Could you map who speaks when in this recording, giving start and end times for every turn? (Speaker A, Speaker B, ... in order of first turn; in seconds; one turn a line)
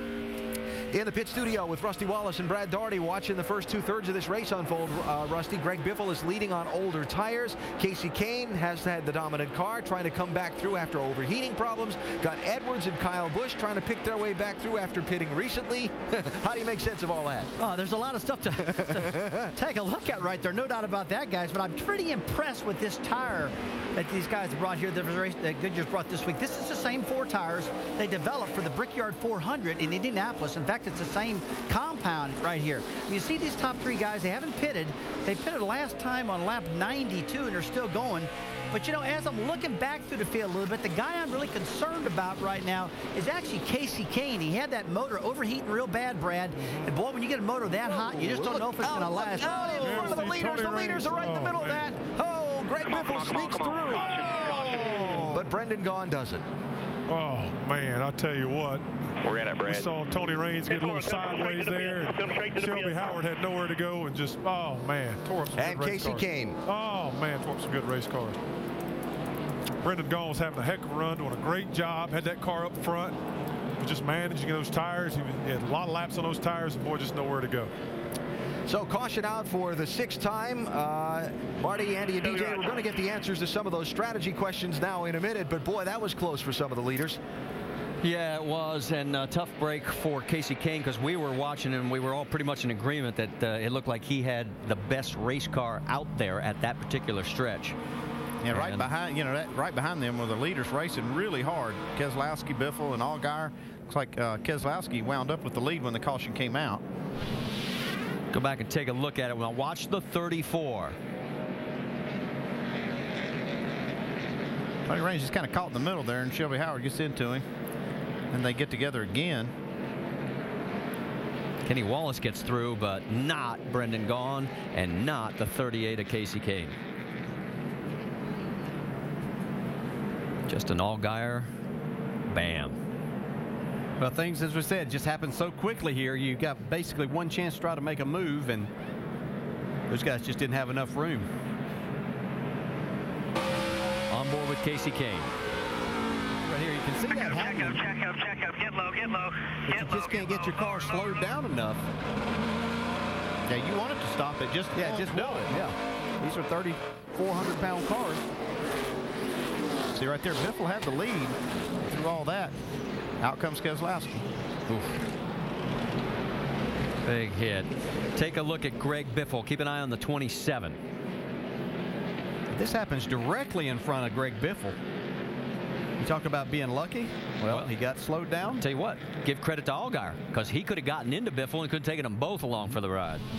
Speaker A: 0.9-17.5
Speaker B: 17.6-50.3
Speaker A: 47.8-56.4
Speaker C: 49.7-51.9
Speaker D: 52.8-55.3
Speaker C: 53.9-55.0
Speaker C: 57.1-59.1
Speaker D: 59.2-63.3
Speaker C: 59.6-68.4
Speaker A: 65.5-66.6
Speaker C: 69.8-73.2
Speaker C: 73.8-77.7
Speaker A: 78.7-87.2
Speaker D: 82.2-82.8
Speaker E: 88.0-97.8
Speaker F: 98.4-106.8
Speaker E: 98.5-98.9
Speaker E: 108.3-111.0
Speaker F: 114.8-117.4
Speaker F: 118.3-119.5
Speaker E: 121.6-126.8
Speaker E: 130.5-131.5
Speaker E: 132.3-132.8
Speaker G: 134.0-138.7
Speaker G: 139.9-141.3
Speaker E: 144.1-145.3
Speaker G: 146.4-147.8
Speaker D: 147.1-151.4
Speaker G: 149.7-151.9
Speaker F: 153.5-155.5
Speaker G: 154.7-158.2
Speaker F: 159.9-162.5
Speaker F: 163.2-164.2
Speaker E: 167.0-170.8
Speaker G: 172.5-174.8
Speaker G: 176.0-178.6
Speaker E: 178.6-183.2